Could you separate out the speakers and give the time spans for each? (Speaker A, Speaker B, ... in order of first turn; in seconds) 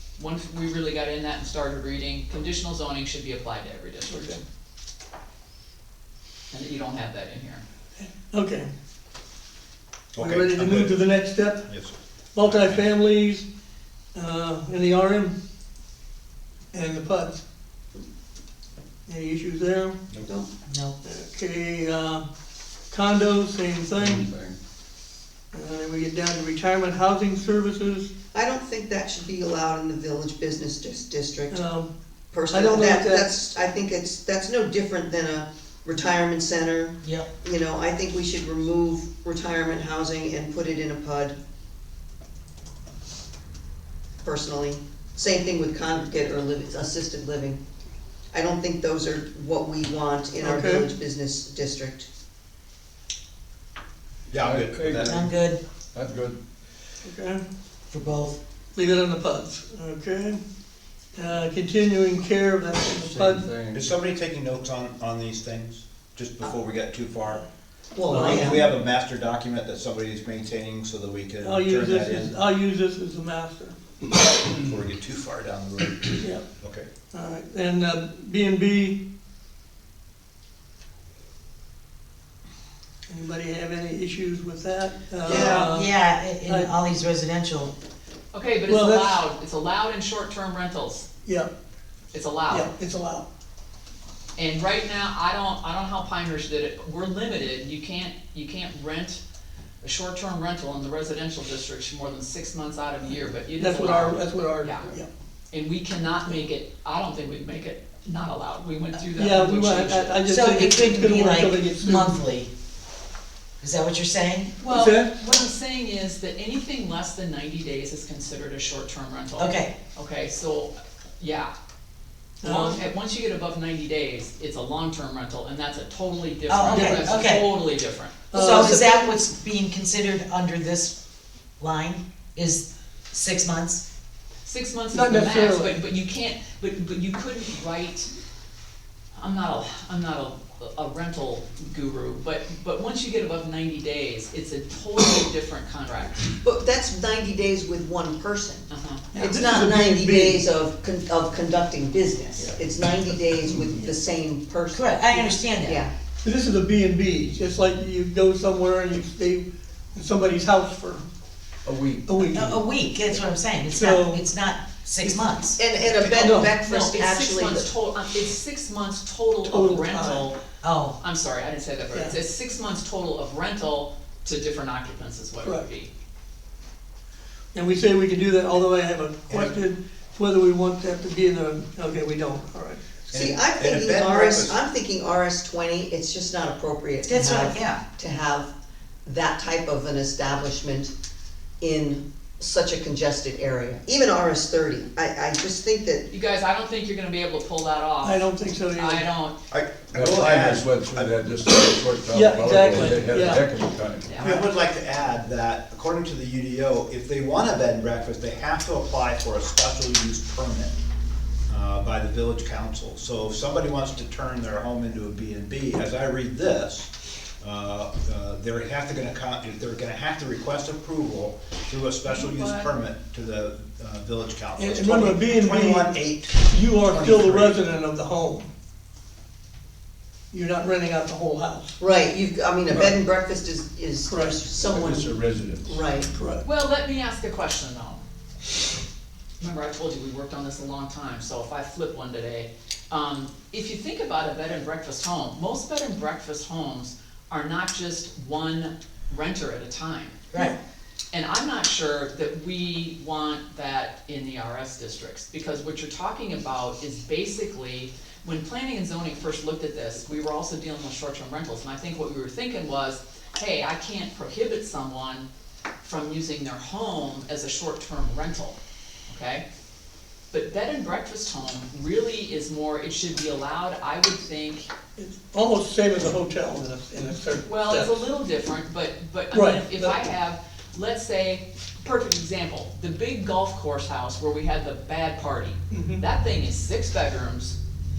Speaker A: 0.2-4.4, 6.5-7.6, 88.3-91.1, 92.1-92.7, 94.4-99.2, 99.8-104.9, 105.5-110.3, 114.6-121.5, 122.4-128.9, 134.4-138.1, 139.2-146.3, 148.7-149.1, 166.4-170.4, 171.0-175.9, 196.1-199.3, 204.1-204.3, 236.4-238.0, 239.4-250.4, 251.1-265.3, 265.8-268.6, 269.1-269.4, 270.3-274.7, 277.4-287.6
Speaker B: 4.1-4.4, 8.0-8.7, 10.2-11.7, 12.3-13.4, 14.1-15.3, 16.7-17.4, 19.1-20.0, 21.0-22.2, 22.9-24.3, 25.5-28.1, 31.5-31.9, 32.5-33.3, 50.4-50.9, 57.0-57.4, 58.7-60.4, 61.1-63.5, 68.1-68.7, 71.4-73.8, 77.1-79.0, 83.1-85.9, 86.5-86.7, 88.7-89.2, 91.2-91.5, 92.5-93.3, 103.6-105.1, 109.2-112.2, 114.7-115.1, 122.4-122.8, 126.6-127.0, 128.3-129.0, 134.9-135.8, 149.1-150.4, 156.2-161.0, 162.0-162.6, 163.7-164.3, 166.2-166.5, 169.4-170.3, 177.5-183.1, 198.0-199.1, 202.1-203.4, 204.2-204.5, 224.6-228.5, 230.3-231.8, 234.1-234.3, 236.1-236.4, 275.0-278.0, 279.3-279.9, 285.7-286.0
Speaker C: 10.2-11.0, 11.6-12.8, 54.3-55.3, 63.7-67.4, 68.1-72.4, 74.4-76.9, 183.1-184.6, 199.5-201.1, 204.2-210.8, 211.5-227.6
Speaker D: 20.7-20.9, 37.0-37.3, 55.0-55.6, 57.9-58.4, 85.3-87.7, 110.2-112.5, 113.6-114.6, 119.4-119.7, 126.5-127.6, 128.3-131.0, 131.6-133.8, 154.7-155.8, 162.2-165.6, 170.6-170.9, 187.0-187.8
Speaker E: 24.0-24.5, 54.3-55.3, 55.9-56.4, 63.0-63.9, 161.7-162.2, 199.9-204.2, 234.6-235.8
Speaker F: 28.3-31.6, 32.3-41.4, 44.2-47.6, 48.3-52.1, 67.9-68.6, 85.2-85.7, 146.4-155.9, 165.0-167.7, 183.1-188.5, 189.0-190.9, 191.6-196.1, 231.8-236.1